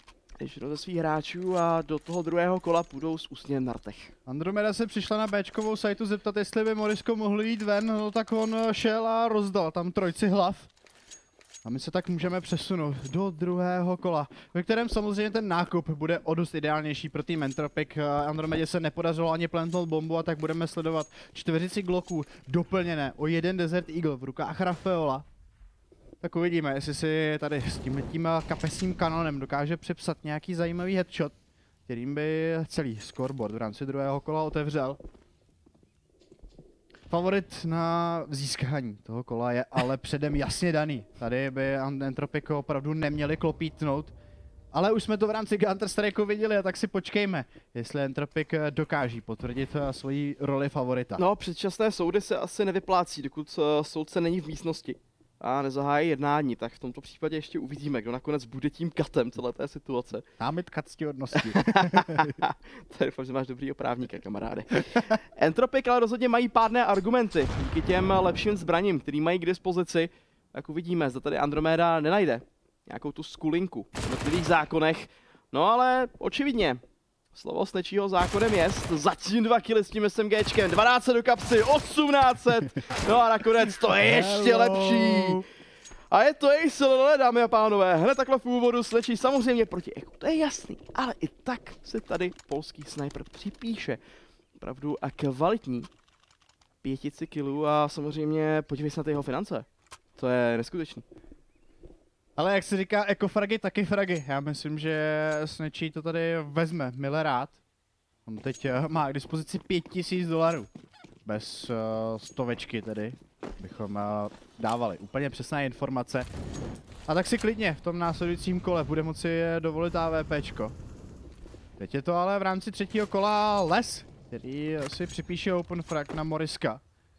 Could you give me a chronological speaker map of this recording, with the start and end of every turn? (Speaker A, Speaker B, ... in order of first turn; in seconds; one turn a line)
Speaker A: 0.4-4.1
Speaker B: 4.2-10.7
Speaker B: 11.6-25.2
Speaker B: 26.2-31.3
Speaker B: 31.9-35.0
Speaker B: 37.1-44.1
Speaker B: 44.7-51.2
Speaker A: 51.2-60.2
Speaker B: 60.4-62.4
Speaker A: 61.4-76.8
Speaker A: 77.3-85.4
Speaker B: 84.0-85.4
Speaker A: 86.1-94.0
Speaker A: 94.6-95.9
Speaker A: 96.8-101.0
Speaker B: 102.4-107.6
Speaker B: 108.2-110.7
Speaker B: 111.2-116.3
Speaker B: 117.1-120.7
Speaker B: 121.8-126.8